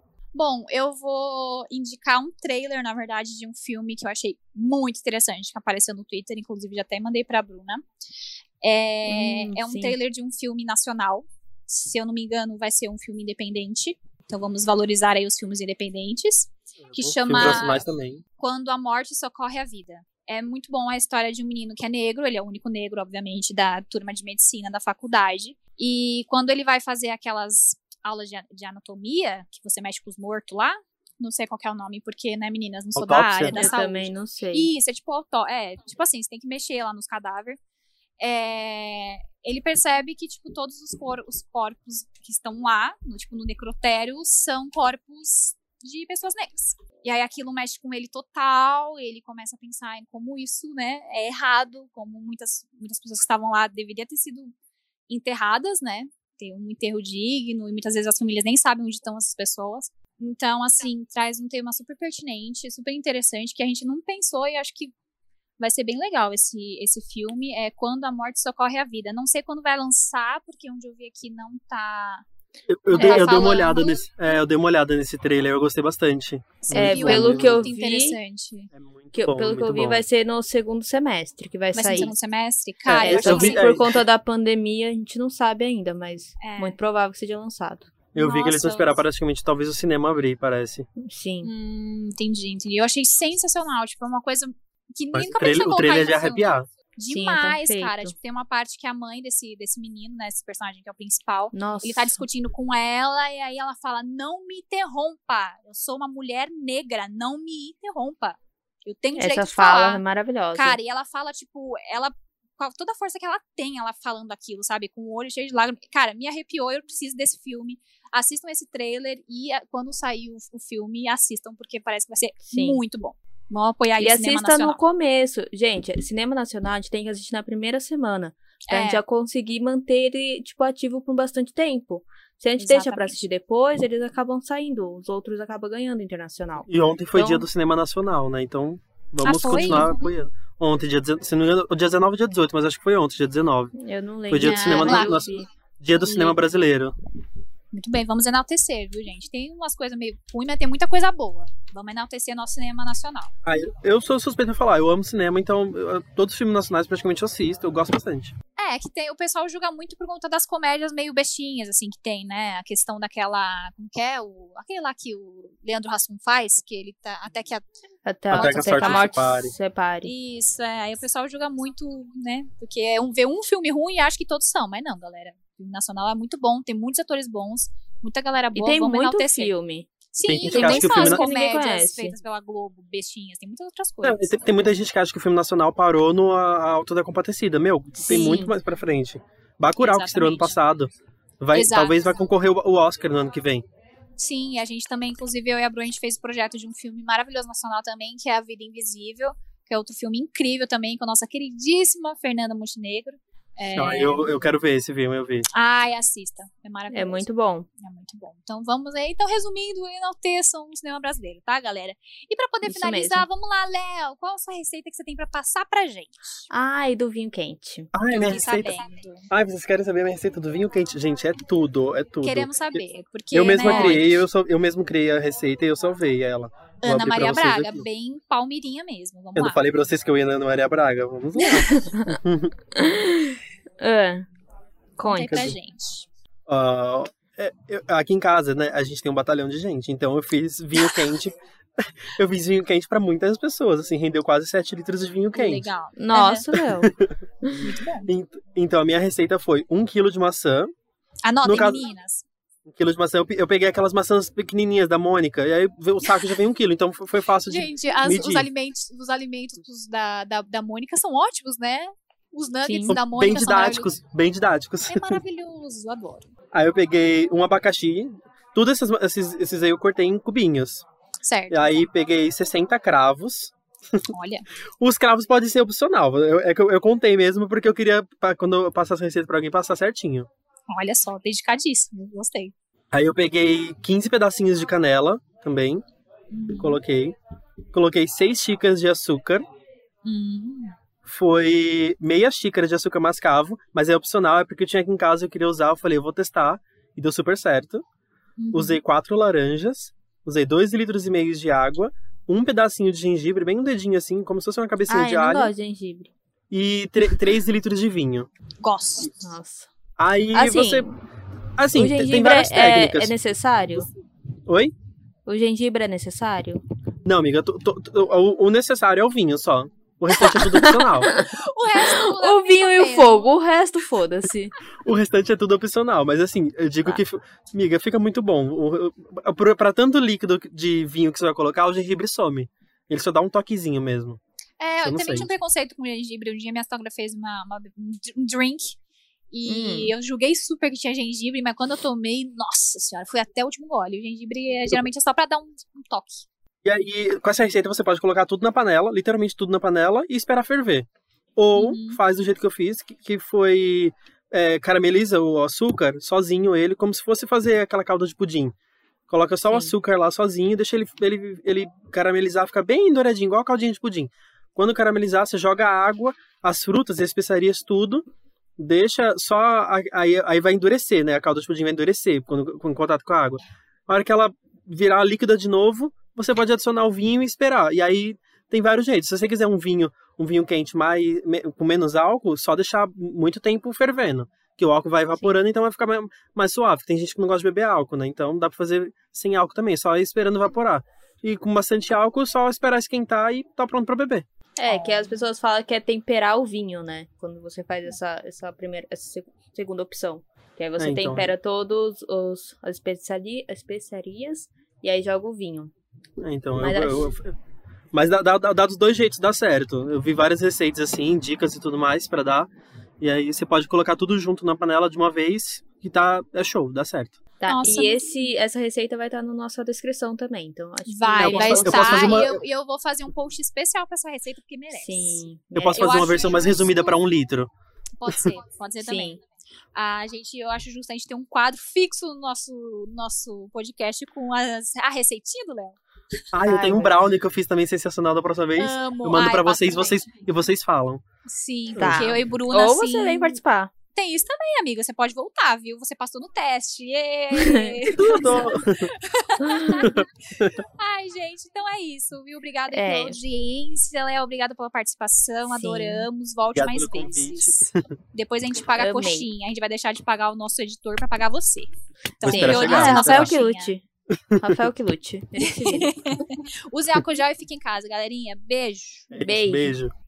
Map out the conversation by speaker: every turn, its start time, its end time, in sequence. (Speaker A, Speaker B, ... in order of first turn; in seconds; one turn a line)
Speaker A: 0.3-7.8
Speaker A: 8.6-17.9
Speaker B: 9.1-10.0
Speaker C: 16.9-18.2
Speaker A: 18.4-37.6
Speaker C: 33.0-33.7
Speaker B: 33.5-34.7
Speaker A: 38.2-54.5
Speaker A: 55.1-64.9
Speaker A: 65.6-72.2
Speaker C: 72.7-77.7
Speaker B: 72.9-73.5
Speaker A: 73.0-74.0
Speaker A: 76.6-78.7
Speaker B: 76.7-78.2
Speaker C: 78.7-80.0
Speaker B: 79.2-82.1
Speaker A: 81.7-83.8
Speaker C: 82.9-83.9
Speaker B: 83.0-87.9
Speaker A: 86.4-86.8
Speaker C: 88.1-90.9
Speaker A: 88.2-89.0
Speaker B: 91.0-91.5
Speaker A: 91.4-110.0
Speaker C: 95.1-96.7
Speaker B: 97.1-98.2
Speaker B: 101.5-102.2
Speaker B: 109.2-110.8
Speaker A: 110.5-124.8
Speaker B: 122.5-122.8
Speaker B: 124.0-137.5
Speaker A: 128.7-129.0
Speaker A: 132.6-133.2
Speaker C: 136.7-143.7
Speaker A: 139.2-140.0
Speaker B: 143.8-145.5
Speaker C: 144.3-146.9
Speaker A: 144.4-145.5
Speaker A: 146.0-146.4
Speaker A: 147.7-153.3
Speaker C: 153.4-158.3
Speaker A: 158.6-167.7
Speaker B: 168.1-170.1
Speaker C: 168.3-169.5
Speaker A: 168.3-169.1
Speaker A: 170.0-179.5
Speaker B: 178.6-179.9
Speaker A: 180.1-184.4
Speaker C: 180.2-181.3
Speaker B: 180.4-182.2
Speaker C: 184.0-193.7
Speaker B: 188.0-188.6
Speaker A: 188.1-188.4
Speaker A: 189.8-190.6
Speaker A: 191.5-192.0
Speaker A: 194.2-204.3
Speaker C: 203.8-205.5
Speaker A: 205.5-207.3
Speaker B: 206.9-207.7
Speaker A: 207.8-216.5
Speaker B: 212.7-213.3
Speaker B: 216.5-217.9
Speaker C: 217.9-227.9
Speaker A: 218.1-219.3
Speaker A: 222.2-224.2
Speaker B: 223.7-224.0
Speaker A: 226.8-229.6
Speaker C: 229.4-232.5
Speaker B: 231.6-232.2
Speaker B: 232.8-234.3
Speaker B: 235.0-235.6
Speaker A: 235.1-236.1
Speaker C: 235.3-235.6
Speaker C: 236.5-245.7
Speaker A: 245.3-246.5
Speaker B: 246.0-247.7
Speaker C: 246.6-247.1
Speaker A: 247.6-248.1
Speaker C: 248.1-250.7
Speaker A: 251.2-252.2
Speaker C: 251.4-251.8
Speaker C: 252.7-258.5
Speaker A: 257.4-263.9
Speaker B: 262.6-263.0
Speaker C: 262.9-265.2
Speaker A: 264.9-266.3
Speaker C: 266.5-270.9
Speaker A: 271.2-271.8
Speaker C: 271.5-274.1
Speaker A: 274.1-274.5
Speaker C: 274.8-280.3
Speaker A: 280.7-282.5
Speaker C: 282.9-285.8
Speaker A: 286.3-286.8
Speaker C: 286.6-287.1
Speaker C: 287.7-289.4
Speaker A: 290.1-290.8
Speaker C: 291.1-297.8
Speaker A: 298.4-298.8
Speaker C: 298.5-305.5
Speaker B: 304.9-306.1
Speaker C: 306.5-308.3
Speaker A: 308.6-309.1
Speaker B: 309.1-309.7
Speaker C: 310.0-310.9
Speaker B: 310.3-311.0
Speaker C: 311.6-313.1
Speaker B: 311.7-313.9
Speaker C: 314.5-314.7
Speaker B: 315.3-316.6
Speaker C: 317.1-321.2
Speaker B: 320.2-321.3
Speaker A: 321.1-323.3
Speaker B: 321.9-324.5
Speaker C: 324.9-334.2
Speaker A: 334.6-338.8
Speaker C: 334.8-335.3
Speaker A: 339.3-346.3
Speaker B: 339.5-339.9
Speaker C: 346.6-358.5
Speaker A: 351.5-352.0
Speaker C: 359.1-368.0
Speaker B: 359.5-359.7
Speaker C: 368.6-394.2
Speaker B: 394.6-405.7
Speaker A: 394.7-395.2
Speaker C: 400.8-401.3
Speaker C: 406.2-407.3
Speaker B: 406.6-407.1
Speaker C: 407.9-412.5
Speaker C: 413.0-417.2
Speaker B: 417.4-422.3
Speaker A: 417.5-418.2
Speaker A: 420.9-425.2
Speaker C: 421.2-422.4
Speaker B: 424.7-426.4
Speaker C: 425.6-427.5
Speaker A: 425.8-427.0
Speaker A: 428.0-429.2
Speaker B: 428.8-429.2
Speaker A: 429.8-435.8
Speaker C: 436.3-441.0
Speaker B: 436.4-437.1
Speaker A: 438.6-440.1
Speaker A: 441.3-443.4
Speaker B: 441.8-443.7
Speaker C: 441.8-442.2
Speaker A: 443.9-463.7
Speaker B: 447.3-448.4
Speaker C: 447.9-448.9
Speaker B: 449.4-449.8
Speaker C: 450.0-450.6
Speaker B: 452.7-453.2
Speaker B: 455.5-456.1
Speaker C: 456.6-457.8
Speaker B: 458.8-459.3
Speaker C: 462.2-463.4
Speaker B: 462.2-463.8
Speaker B: 464.4-465.9
Speaker A: 465.4-469.2
Speaker C: 469.1-469.9
Speaker B: 469.2-469.8